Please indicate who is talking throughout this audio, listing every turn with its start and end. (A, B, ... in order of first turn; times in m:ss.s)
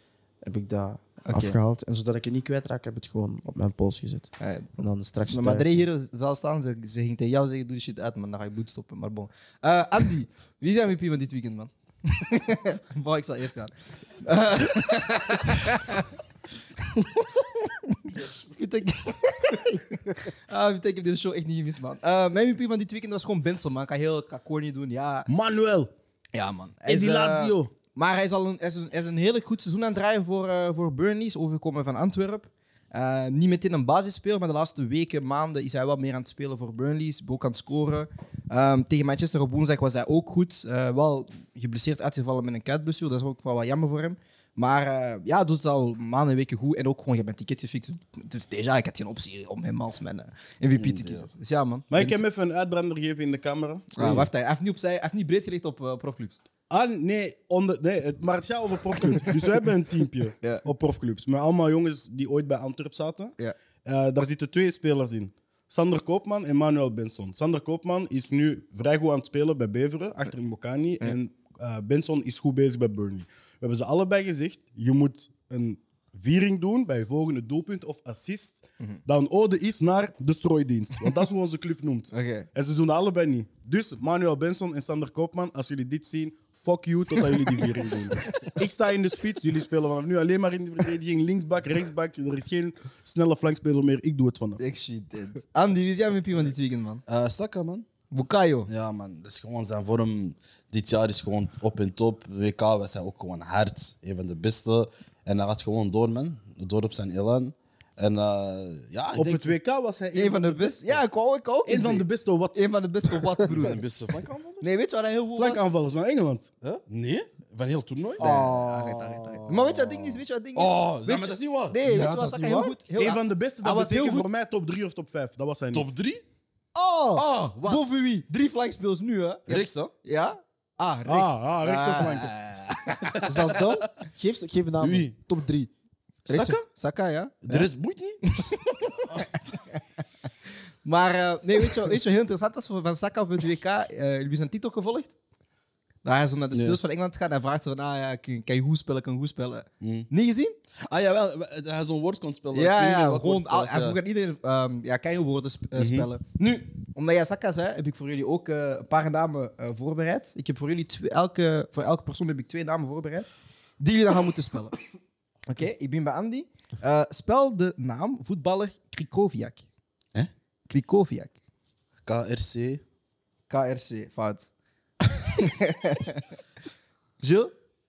0:00.4-0:05.9 A
0:01.2-0:01.6 B
0:04.4-0:04.7 B
0:05.2-0:16.1 B
0:16.8-0:25.3 B
0:25.3-0:25.9 C
0:26.3-0:52.2 B
0:26.8-0:27.7 C
0:50.7-0:51.3 D
0:51.9-0:54.3 C
0:54.0-0:56.4 B
0:56.7-1:34.6 C
1:22.1-1:22.5 B
1:34.6-1:37.0 B
1:37.1-1:37.9 D
1:38.1-1:38.7 B
1:38.7-1:49.6 D
1:49.1-1:51.0 C
1:50.1-1:53.8 B
1:51.6-1:52.7 C
1:53.5-1:54.7 D
1:54.6-1:55.7 B
1:55.3-1:56.5 C
1:56.6-1:58.2 D
1:58.2-1:59.5 A
1:58.2-2:04.3 B
1:58.2-1:58.5 C
1:59.7-2:01.8 D
2:01.8-2:02.8 A
2:02.9-2:05.9 C
2:05.7-2:06.2 D
2:06.8-2:07.8 A
2:07.1-2:13.6 B
2:09.5-2:09.9 D
2:11.0-2:12.3 C
2:13.2-2:15.7 A
2:14.8-2:15.1 D
2:16.2-2:16.6 D
2:16.3-2:17.5 B
2:17.4-2:18.2 D
2:18.2-2:19.8 B
2:20.8-2:25.2 B
2:26.0-2:30.5 B
2:26.5-2:26.8 D
2:29.8-2:30.1 D
2:30.8-2:34.0 D
2:32.5-2:44.7 B
2:35.8-2:36.1 D
2:45.5-2:49.6 B
2:50.7-2:51.4 B
2:52.0-2:52.8 D
2:53.5-2:54.5 B
2:55.3-2:56.2 B
2:57.2-2:57.5 B